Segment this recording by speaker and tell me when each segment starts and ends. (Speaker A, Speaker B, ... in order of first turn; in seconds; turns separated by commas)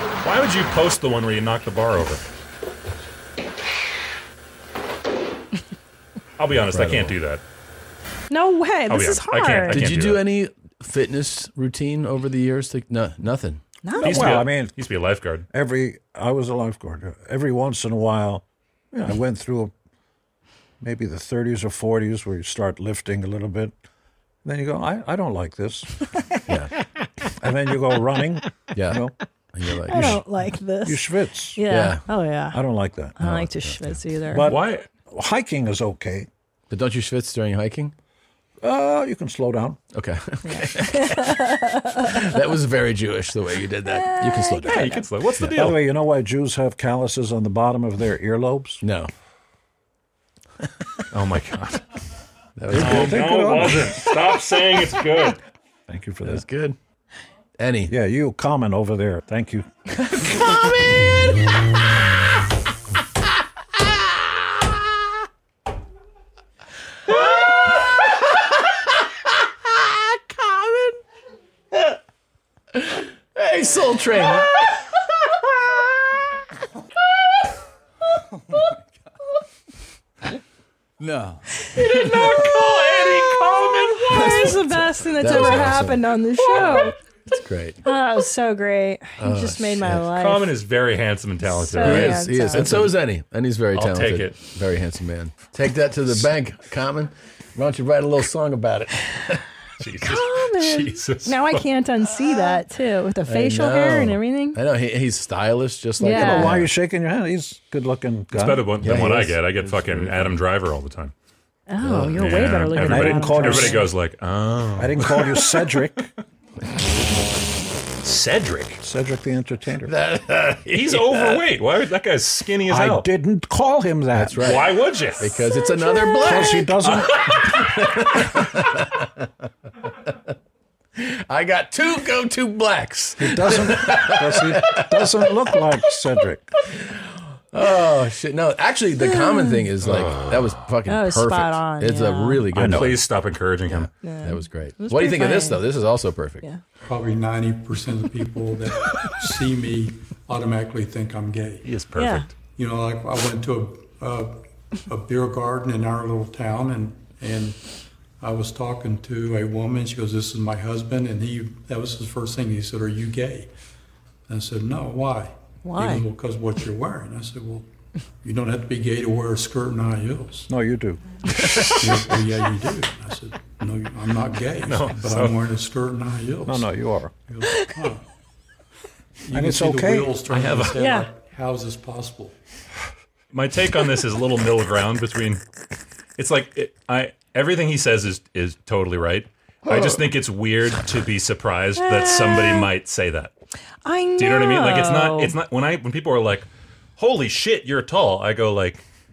Speaker A: 0.2-2.2, Speaker A: 6.4-7.4, Speaker B: 6.6-7.2, Speaker C: 8.3-9.9, Speaker A: 8.9-10.3, Speaker B: 9.7-13.6, Speaker C: 13.8-14.4, Speaker D: 14.0-14.8, Speaker A: 14.0-15.5, Speaker D: 15.5-19.7, Speaker D: 20.8-23.7, Speaker D: 24.4-26.0, Speaker D: 27.4-29.1, Speaker B: 28.7-29.0, Speaker B: 29.5-30.2, Speaker C: 29.9-32.6, Speaker D: 29.9-30.2, Speaker D: 30.8-31.6, Speaker B: 31.7-32.0, Speaker D: 32.5-33.3, Speaker C: 33.2-34.5, Speaker B: 33.2-34.0, Speaker D: 34.3-36.3, Speaker A: 34.5-34.9, Speaker B: 36.7-37.9, Speaker D: 38.6-39.8, Speaker B: 39.9-41.5, Speaker C: 40.5-42.2, Speaker B: 42.0-45.5, Speaker C: 43.9-45.0, Speaker A: 44.7-45.8, Speaker D: 45.5-48.8, Speaker B: 48.8-49.1, Speaker A: 51.1-51.8, Speaker B: 52.6-53.3, Speaker D: 52.7-54.1, Speaker A: 52.7-55.4, Speaker D: 55.9-56.4, Speaker B: 56.2-56.8, Speaker B: 57.6-57.9, Speaker D: 57.9-60.5, Speaker B: 60.3-61.1, Speaker B: 67.1-68.1, Speaker B: 69.7-71.0, Speaker B: 72.7-74.8, Speaker B: 81.0-86.0, Speaker C: 82.0-82.4, Speaker C: 83.9-87.0, Speaker B: 86.6-87.8, Speaker C: 87.8-90.5, Speaker B: 89.2-90.1, Speaker A: 90.1-92.9, Speaker C: 91.4-92.9, Speaker B: 91.8-99.4, Speaker A: 93.7-94.4, Speaker A: 99.8-101.6, Speaker C: 100.0-104.6, Speaker B: 103.2-106.7, Speaker C: 106.0-106.6, Speaker D: 106.0-109.2, Speaker A: 108.3-111.1, Speaker B: 108.8-110.4, Speaker C: 111.7-113.9, Speaker B: 111.8-112.4, Speaker A: 112.2-115.8, Speaker D: 112.8-113.8, Speaker D: 114.8-116.1, Speaker A: 118.0-118.8, Speaker D: 118.8-119.9, Speaker B: 119.8-121.5, Speaker A: 120.7-123.1, Speaker D: 122.7-124.6, Speaker B: 124.2-129.3, Speaker A: 124.4-125.5, Speaker D: 126.2-127.7, Speaker A: 126.9-127.5, Speaker B: 131.0-135.3, Speaker D: 133.2-136.5, Speaker B: 136.7-143.1, Speaker C: 139.0-139.7, Speaker C: 140.9-142.5, Speaker D: 142.6-143.0, Speaker A: 142.7-143.9, Speaker B: 143.7-146.4, Speaker C: 144.0-145.6, Speaker E: 146.8-151.7, Speaker A: 151.6-152.3, Speaker C: 151.9-152.3, Speaker E: 152.6-154.4, Speaker E: 154.9-157.6, Speaker E: 158.2-163.5, Speaker E: 164.3-167.7, Speaker C: 165.6-166.1, Speaker E: 168.2-170.5, Speaker D: 170.5-171.0, Speaker E: 171.8-176.7, Speaker A: 174.7-175.4, Speaker D: 176.4-177.1, Speaker E: 177.3-178.0, Speaker E: 179.3-182.3, Speaker D: 179.3-180.2, Speaker A: 180.3-180.7, Speaker C: 180.8-181.1, Speaker A: 183.3-185.4, Speaker A: 186.2-193.3, Speaker C: 191.8-192.7, Speaker C: 193.8-195.4, Speaker A: 194.2-198.8